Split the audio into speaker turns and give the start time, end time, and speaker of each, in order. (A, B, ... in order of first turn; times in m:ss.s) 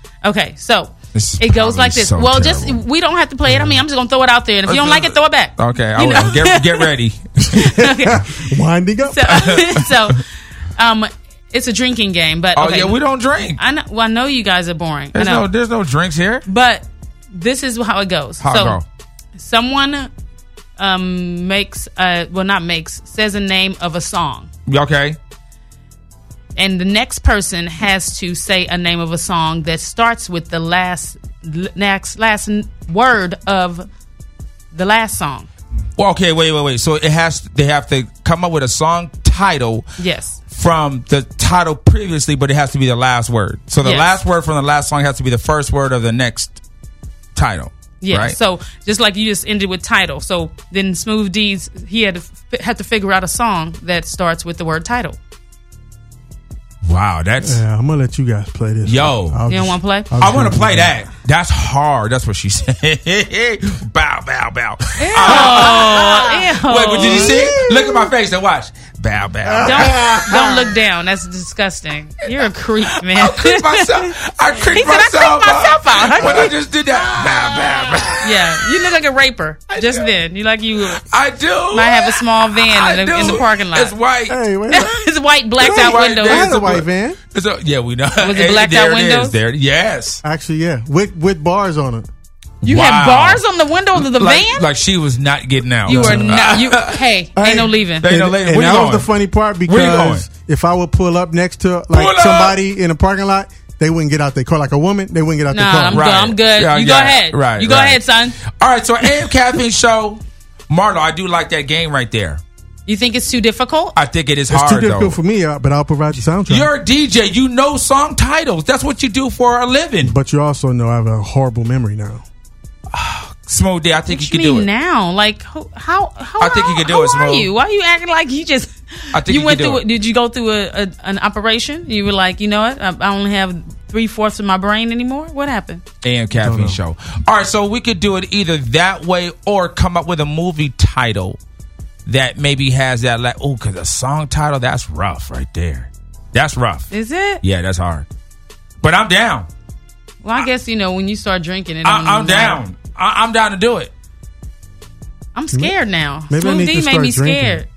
0:00.2-0:06.9 A
0:01.1-0:02.8 B
0:04.6-0:07.5 B
0:07.5-0:08.4 A
0:07.6-0:09.4 C
0:09.1-0:10.2 A
0:09.3-0:10.1 B
0:10.8-0:13.0 A
0:12.5-0:13.6 B
0:13.6-0:15.4 A
0:15.1-0:16.4 B
0:16.4-0:18.8 A
0:18.4-0:18.8 B
0:19.4-0:20.1 A
0:20.8-0:24.5 A
0:24.7-0:25.2 B
0:26.6-0:33.9 A
0:34.7-0:35.5 A
0:36.0-0:39.8 B
0:40.0-0:40.4 A
0:40.5-0:46.6 B
0:43.8-0:44.1 A
0:47.3-0:48.4 B
0:48.0-0:55.2 A
0:56.8-0:57.6 B
0:57.4-1:00.9 C
0:58.8-0:59.4 B
0:59.5-1:00.1 A
1:00.2-1:10.2 B
1:05.0-1:07.3 A
1:05.2-1:06.2 C
1:07.0-1:08.1 C
1:09.4-1:10.7 C
1:09.6-1:14.1 A
1:13.0-1:18.6 B
1:14.7-1:16.5 A
1:16.2-1:16.5 C
1:18.2-1:21.0 A
1:21.0-1:24.4 B
1:21.7-1:23.9 A
1:24.3-1:25.0 C
1:24.7-1:26.5 A
1:25.6-1:27.2 C
1:25.6-1:30.2 B
1:28.2-1:29.3 A
1:30.2-1:32.1 C
1:32.6-1:33.4 B
1:32.6-1:34.6 A
1:33.9-1:37.0 B
1:35.8-1:38.1 A
1:35.9-1:36.5 C
1:37.4-1:46.1 C
1:38.0-1:39.1 B
1:39.7-1:40.2 B
1:41.9-1:42.6 B
1:45.5-1:48.4 A
1:45.9-1:52.4 B
1:52.9-1:53.9 A
1:54.0-1:55.2 B
1:54.5-1:56.7 C
1:56.3-2:00.1 B
2:00.0-2:02.2 C
2:02.9-2:04.7 B
2:04.1-2:15.8 A
2:06.4-2:07.5 B
2:09.1-2:09.8 B
2:16.0-2:21.4 B
2:16.4-2:16.8 C
2:22.0-2:26.9 B
2:26.9-2:27.4 A
2:27.4-2:28.0 B
2:28.8-2:29.5 B
2:30.2-2:32.6 A
2:31.8-2:33.9 B
2:35.3-2:37.7 A
2:36.3-2:37.6 C